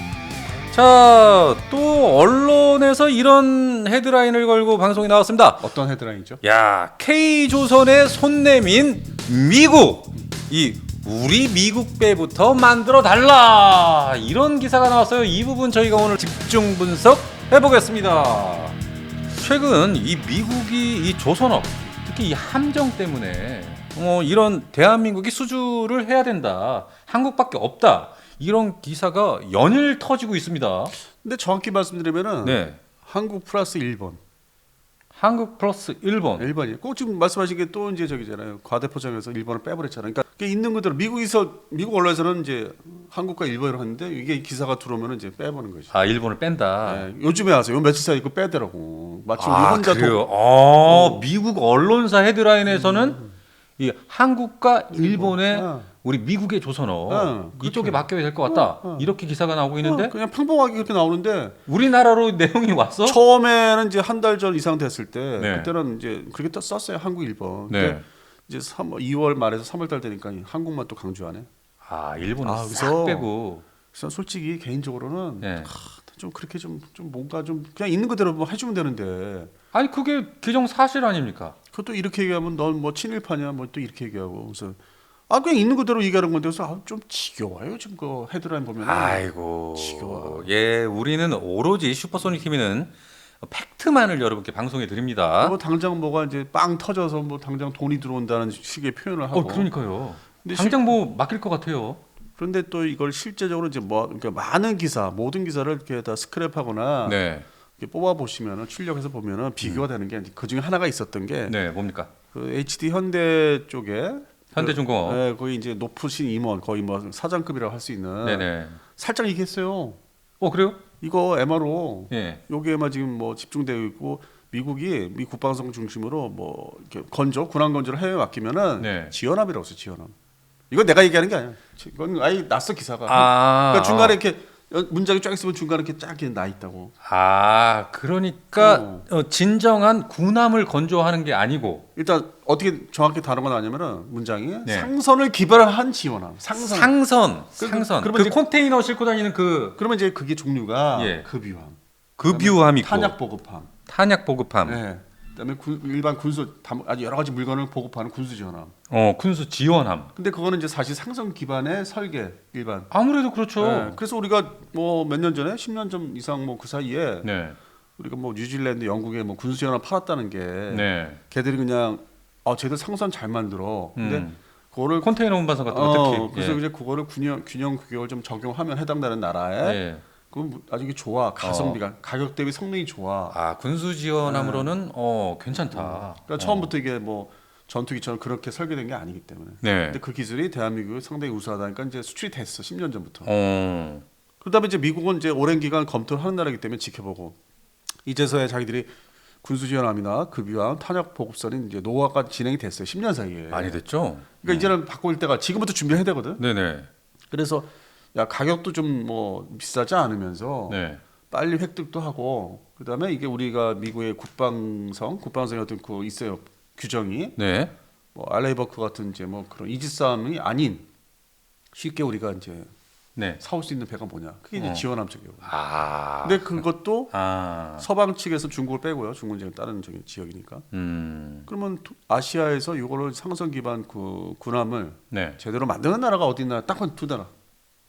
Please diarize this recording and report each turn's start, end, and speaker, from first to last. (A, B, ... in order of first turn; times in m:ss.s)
0:00.7-0:05.6 A
0:05.6-0:06.4 B
0:06.4-0:18.8 A
0:19.3-0:30.9 A
0:31.1-0:34.2 B
0:32.4-0:32.8 A
0:35.1-0:36.4 A
0:36.4-0:45.9 B
0:45.9-0:47.1 A
0:46.8-0:50.2 B
0:49.4-0:53.2 A
0:50.8-0:51.2 B
0:52.7-0:53.3 B
0:53.8-1:00.1 A
0:54.9-0:55.9 B
0:57.1-0:59.1 B
0:59.8-1:01.6 B
1:01.7-1:03.2 A
1:03.0-1:11.5 B
1:05.4-1:05.7 A
1:07.7-1:08.0 A
1:11.8-1:13.6 A
1:12.4-1:13.3 B
1:13.9-1:19.5 B
1:15.4-1:15.7 A
1:19.7-1:21.6 A
1:21.7-1:30.5 B
1:28.8-1:35.6 A
1:35.4-1:39.7 B
1:39.3-1:42.0 A
1:40.4-1:40.9 B
1:42.4-1:47.2 B
1:47.0-1:47.4 A
1:47.8-1:51.6 B
1:51.5-1:52.1 A
1:52.3-2:00.0 B
1:54.5-1:55.2 A
1:58.2-1:58.8 A
2:00.4-2:00.8 A
2:01.0-2:10.1 B
2:02.1-2:02.4 A
2:08.8-2:09.1 A
2:10.7-2:16.9 B
2:13.1-2:14.2 A
2:17.0-2:21.8 A
2:18.6-2:19.0 B
2:22.0-2:26.9 B
2:24.6-2:24.9 A
2:26.5-2:29.8 A
2:27.6-2:28.4 B
2:29.8-2:33.7 B
2:30.9-2:31.2 A
2:32.2-2:33.1 A
2:33.9-2:34.8 A
2:34.6-2:38.7 B
2:38.9-2:40.1 A
2:40.2-2:42.9 B
2:42.9-2:44.0 A
2:43.6-2:47.3 B
2:47.2-2:47.6 A
2:48.0-2:55.1 B
2:50.7-2:51.2 A
2:54.0-2:54.4 A
2:55.0-2:56.6 A
2:55.7-3:03.4 B
2:59.6-3:00.0 A
3:01.4-3:01.8 A
3:03.3-3:06.7 A
3:04.2-3:04.7 B
3:05.5-3:13.3 B
3:09.6-3:10.0 A
3:13.2-3:14.0 A
3:14.4-3:17.4 B
3:18.0-3:18.9 B
3:19.4-3:23.8 B
3:23.5-3:24.7 A
3:24.4-3:26.4 B
3:26.4-3:26.9 A
3:27.3-3:37.4 B
3:30.7-3:31.0 A
3:37.4-3:37.7 A
3:38.1-3:40.9 B
3:41.7-3:42.7 B
3:43.2-3:43.4 A
3:43.4-3:45.5 B
3:44.6-3:44.8 A
3:45.4-3:47.8 A
3:46.2-3:47.1 B
3:47.8-3:50.6 B
3:50.7-3:51.5 A
3:51.5-3:57.3 B
3:55.1-3:55.4 A